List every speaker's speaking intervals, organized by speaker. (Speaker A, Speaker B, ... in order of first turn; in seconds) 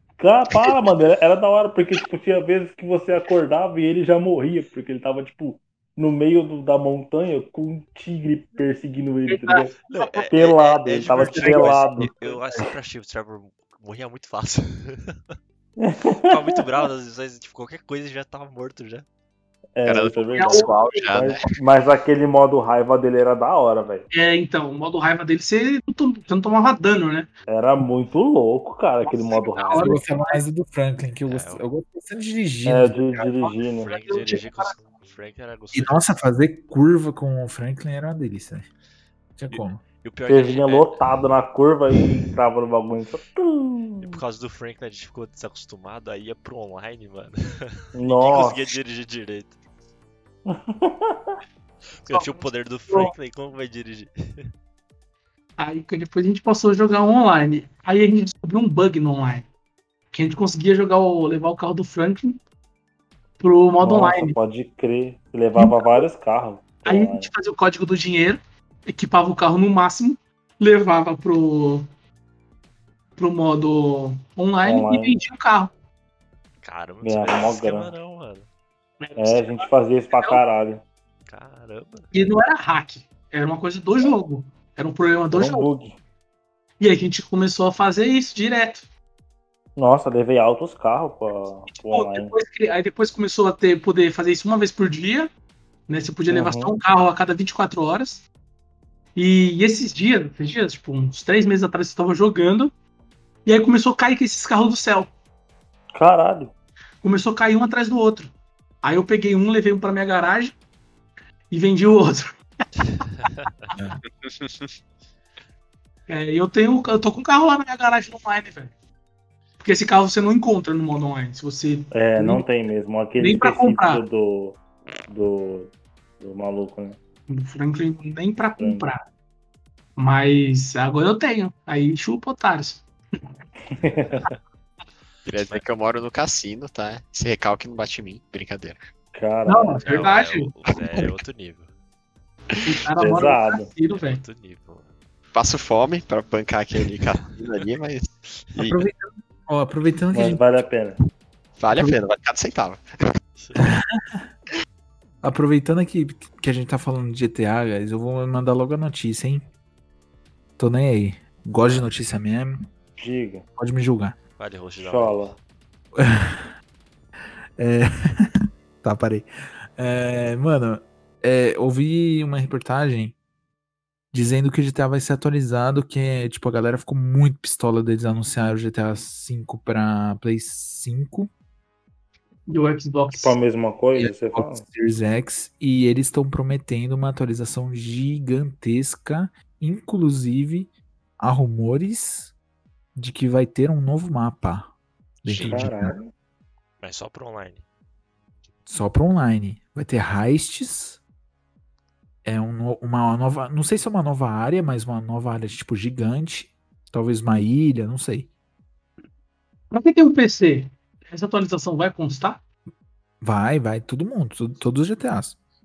Speaker A: 0.2-9.7, 10.3-12.1, 15.8-16.6, 19.8-24.1, 27.5-29.9, 32.6-33.9, 40.3-44.2, 47.9-48.7, 50.5-51.3, 63.8-67.3, 74.6-75.2, 77.0-77.9, 79.2-80.8, 85.3-86.0, 89.8-92.3, 96.3-96.7, 105.9-106.5, 121.9-127.0, 128.6-128.9, 133.7-134.2, 139.1-140.1, 143.0-143.7, 150.1-151.0, 163.0-163.4, 164.8-165.4, 183.1-184.6, 195.4-196.1
Speaker B: 9.3-10.3, 20.3-21.1, 24.1-27.3, 29.0-30.4, 33.4-34.7, 52.1-53.1, 55.6-59.5, 60.1-62.4, 63.4-64.3, 65.5-66.0, 66.8-71.9, 73.2-75.7, 79.0-80.4, 82.1-85.7, 86.8-88.8, 91.7-95.3, 95.9-98.2, 99.2-102.7, 103.4-105.1, 107.0-110.5, 111.5-112.4, 116.1-118.7, 119.6-122.4, 123.2-124.0, 127.3-129.0, 129.9-132.8, 139.4-140.5, 142.6-144.2, 182.5-183.3, 209.7-212.4
Speaker C: 9.9-15.3, 16.2-19.0, 31.2-31.7, 33.8-36.1, 39.5-41.1, 44.0-49.5, 52.0-54.5, 76.6-78.5, 81.3-82.1, 113.0-113.5, 139.8-141.7, 143.9-144.9, 153.4-153.7, 164.4-165.3, 195.2-195.7, 196.8-197.6
Speaker D: 11.4-12.7, 29.7-33.3, 35.7-38.7, 39.4-39.8, 148.6-150.4, 151.7-152.0, 153.6-154.3, 155.2-159.4, 160.6-162.6, 163.6-164.2, 165.9-166.5, 167.6-173.1, 174.1-181.3, 183.9-192.3, 192.9-194.7, 195.2-196.0, 198.7-201.0, 202.2-208.3, 213.2-215.4
Speaker E: 19.8-21.6, 114.2-114.7, 135.2-138.8, 145.3-148.9, 151.6-152.8